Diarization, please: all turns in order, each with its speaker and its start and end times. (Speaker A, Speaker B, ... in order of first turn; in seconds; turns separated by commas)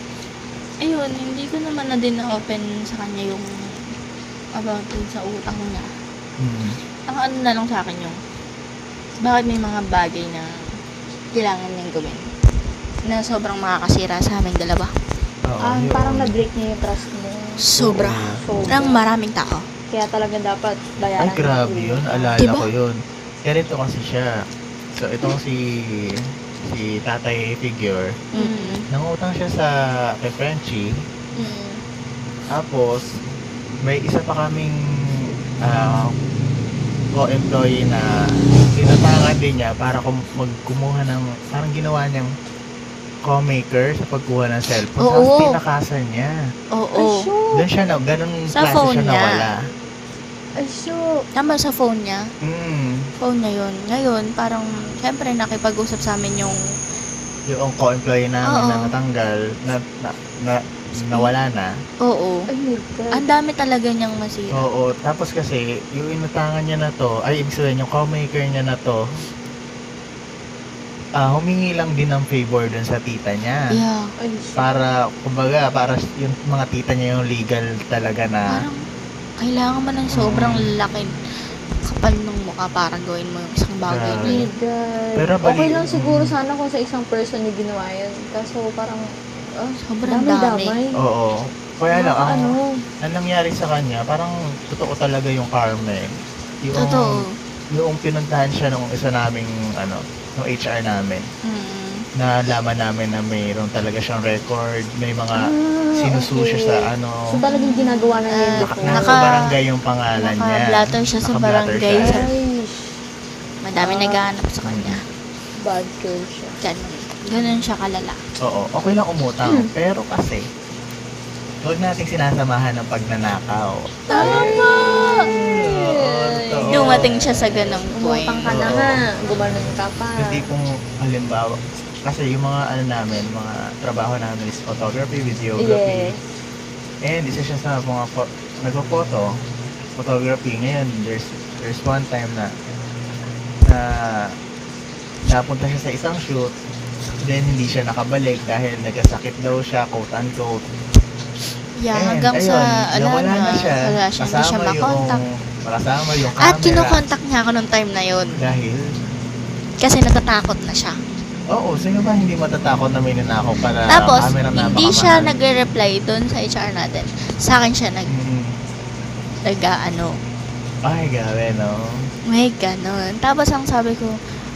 Speaker A: 0.8-3.8, Speaker A: 4.5-5.9, Speaker B: 6.4-6.8, Speaker A: 7.1-8.2, Speaker A: 9.2-10.6, Speaker A: 11.3-12.3, Speaker A: 13.1-14.9, Speaker B: 15.4-16.3, Speaker C: 15.6-17.7, Speaker A: 17.6-19.7, Speaker B: 17.8-18.4, Speaker C: 18.4-19.0, Speaker C: 19.9-22.3, Speaker B: 21.2-28.2, Speaker A: 22.4-22.7, Speaker A: 28.3-28.9, Speaker C: 28.4-28.8, Speaker B: 28.9-30.9, Speaker C: 31.4-31.8, Speaker B: 32.5-33.2, Speaker B: 33.8-36.1, Speaker B: 37.1-38.2, Speaker B: 38.7-42.3, Speaker B: 43.2-46.4, Speaker A: 45.0-45.6, Speaker A: 46.7-47.3, Speaker C: 47.0-47.6, Speaker B: 47.5-49.7, Speaker A: 48.5-49.5, Speaker C: 50.6-51.2, Speaker A: 51.4-52.3, Speaker B: 52.4-53.1, Speaker A: 53.2-56.6, Speaker B: 57.5-61.8, Speaker A: 58.5-59.0, Speaker A: 61.0-61.3, Speaker A: 62.0-62.5, Speaker C: 62.5-63.2, Speaker A: 63.1-64.7, Speaker B: 64.5-69.1, Speaker B: 71.2-73.8, Speaker A: 73.7-74.1, Speaker C: 74.2-74.7, Speaker B: 74.6-78.7, Speaker A: 78.5-78.8, Speaker A: 79.4-81.1, Speaker B: 80.1-80.7, Speaker A: 81.8-84.5, Speaker B: 83.9-84.5, Speaker C: 84.2-91.0, Speaker B: 85.2-86.3, Speaker A: 89.8-90.7, Speaker B: 91.0-101.3, Speaker C: 91.9-92.8, Speaker A: 96.8-97.4, Speaker A: 101.4-102.0, Speaker B: 102.2-107.4, Speaker C: 105.3-109.2, Speaker A: 107.4-109.5, Speaker B: 108.6-112.3, Speaker A: 110.2-112.3, Speaker C: 112.0-113.0, Speaker A: 113.6-115.0, Speaker C: 113.8-114.3, Speaker B: 114.7-115.0, Speaker C: 115.6-116.6, Speaker A: 116.6-118.2, Speaker B: 118.4-120.5, Speaker C: 119.5-119.7, Speaker B: 121.6-127.8, Speaker A: 124.1-125.3, Speaker C: 124.1-127.2, Speaker A: 126.7-128.7, Speaker C: 127.9-130.5, Speaker B: 128.5-129.0, Speaker B: 130.2-136.1, Speaker C: 135.6-136.2, Speaker B: 137.0-139.4, Speaker B: 140.0-142.5, Speaker B: 143.7-144.4, Speaker B: 145.2-146.5, Speaker B: 147.2-150.6, Speaker A: 151.8-155.2, Speaker B: 151.9-157.0, Speaker A: 156.4-158.4, Speaker B: 158.4-158.9, Speaker A: 159.8-161.0, Speaker B: 161.5-165.3, Speaker A: 163.9-168.1, Speaker B: 168.1-168.6, Speaker A: 169.4-170.2, Speaker B: 170.8-171.8, Speaker A: 172.3-174.2